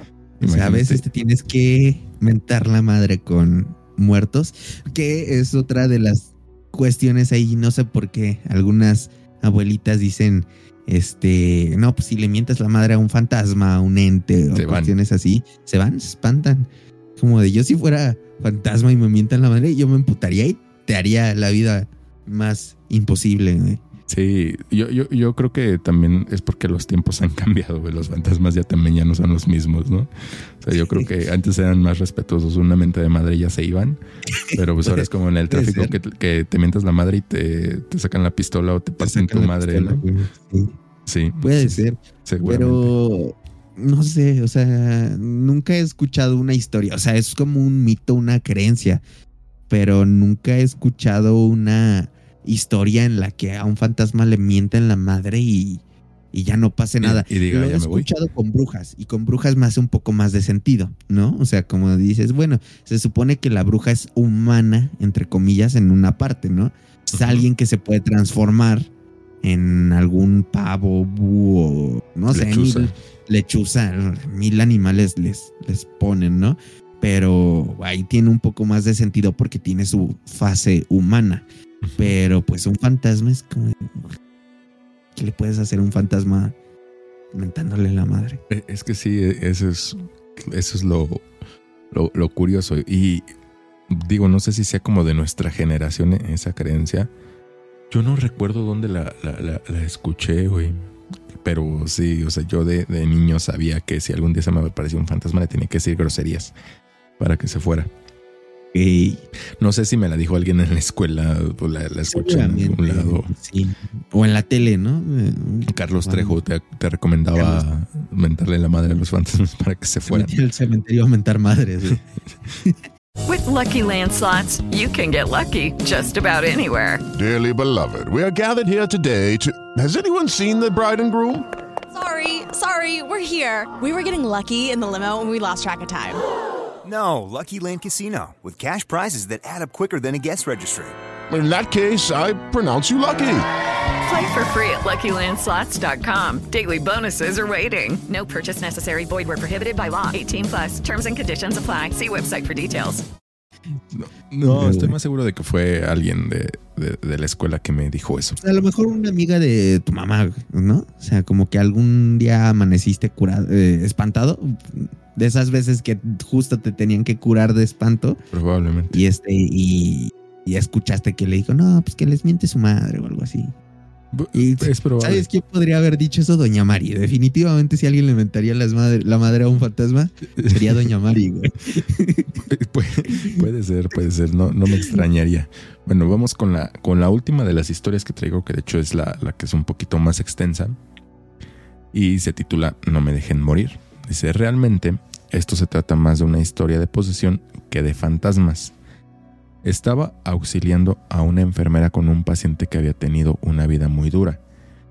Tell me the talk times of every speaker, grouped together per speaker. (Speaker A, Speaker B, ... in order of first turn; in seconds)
Speaker A: 0.4-23.8, 30.7-31.1, 34.5-35.9, 39.0-40.8, 41.4-49.0, 49.7-68.9, 69.4-81.5, 82.0-83.9, 85.2-86.5, 87.3-88.4, 108.7-109.2, 112.1-116.4, 117.3-117.6, 120.1-122.0, 154.5-154.9, 158.4-168.2, 168.9-173.5, 174.3-182.3
Speaker B: 0.4-1.1, 14.5-14.9, 24.1-34.0, 34.5-40.0, 41.1-42.9, 57.0-58.1, 67.1-67.5, 72.3-72.9, 81.8-82.2, 88.5-91.2, 91.9-93.3, 93.9-97.1, 97.9-100.8, 101.4-106.5, 107.2-107.9, 109.6-113.3, 115.7-120.3, 153.9-158.4, 168.3-169.0, 174.1-175.3, 180.4-180.8, 182.4-190.8, 191.9-198.7, 199.6-204.4
Speaker C: 123.3-127.0, 144.1-153.0
Speaker D: 128.3-129.0, 129.9-131.4
Speaker E: 131.9-136.2
Speaker F: 136.8-140.9